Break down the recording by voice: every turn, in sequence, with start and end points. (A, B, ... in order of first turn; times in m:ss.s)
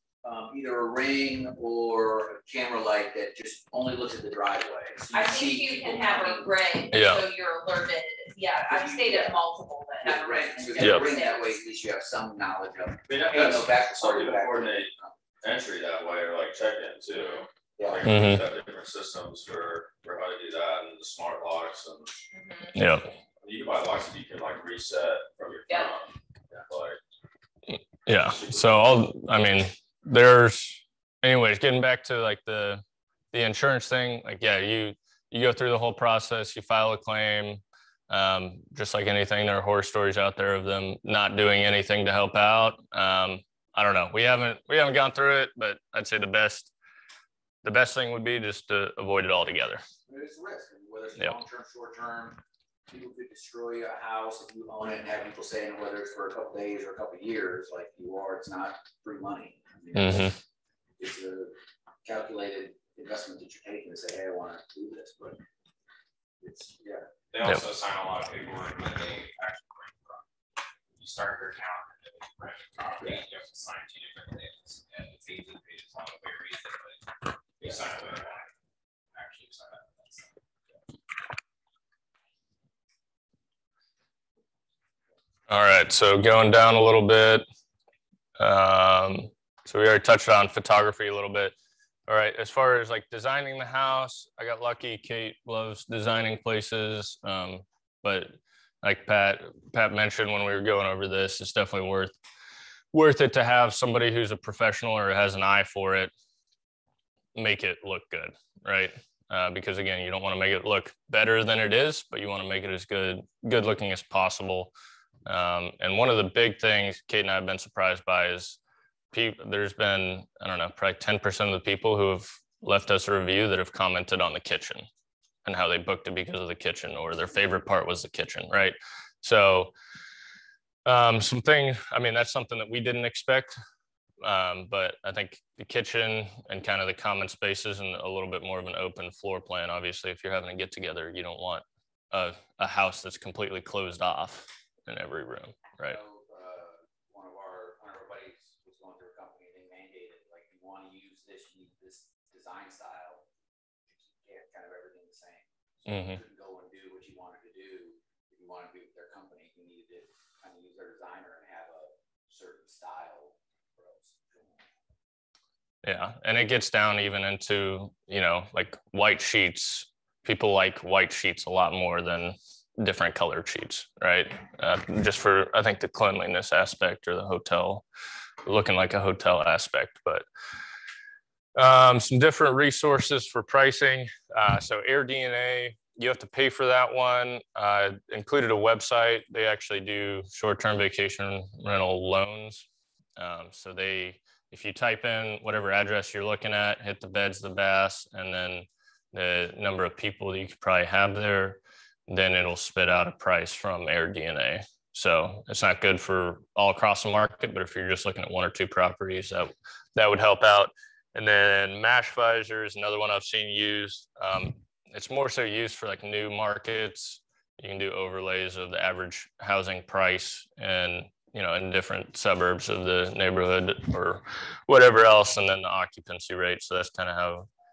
0:00.2-0:06.5 A
0:05.1-0:11.6 B
0:06.9-0:07.2 C
0:08.6-0:09.4 A
0:10.0-0:15.1 A
0:10.8-0:11.1 C
0:13.1-0:14.9 D
0:15.4-0:22.1 D
0:17.8-0:18.0 A
0:18.0-0:18.4 C
0:22.3-0:22.8 B
0:22.7-0:23.1 C
0:23.4-0:27.0 D
0:27.7-0:46.7 C
0:28.2-0:28.7 D
0:47.6-0:49.8 C
0:50.1-1:00.4 A
0:59.9-1:00.4 C
1:01.0-1:05.4 A
1:06.4-1:07.1 A
1:07.3-1:10.2 E
1:11.0-1:18.5 E
1:19.1-1:20.3 E
1:25.5-1:27.4 C
1:28.4-1:31.5 C
1:32.1-1:42.1 C
1:42.9-1:46.1 C
1:47.3-1:54.7 C
1:55.2-1:58.6 C
1:59.1-2:04.9 C
2:05.4-2:09.7 C
2:10.8-2:13.6 C
2:14.2-2:26.0 C
2:25.8-2:33.2 A
2:33.9-2:44.6 A
2:35.8-2:36.2 C
2:45.8-2:57.8 C
2:58.4-3:00.2 C
3:01.6-3:12.6 C
3:13.2-3:47.5 C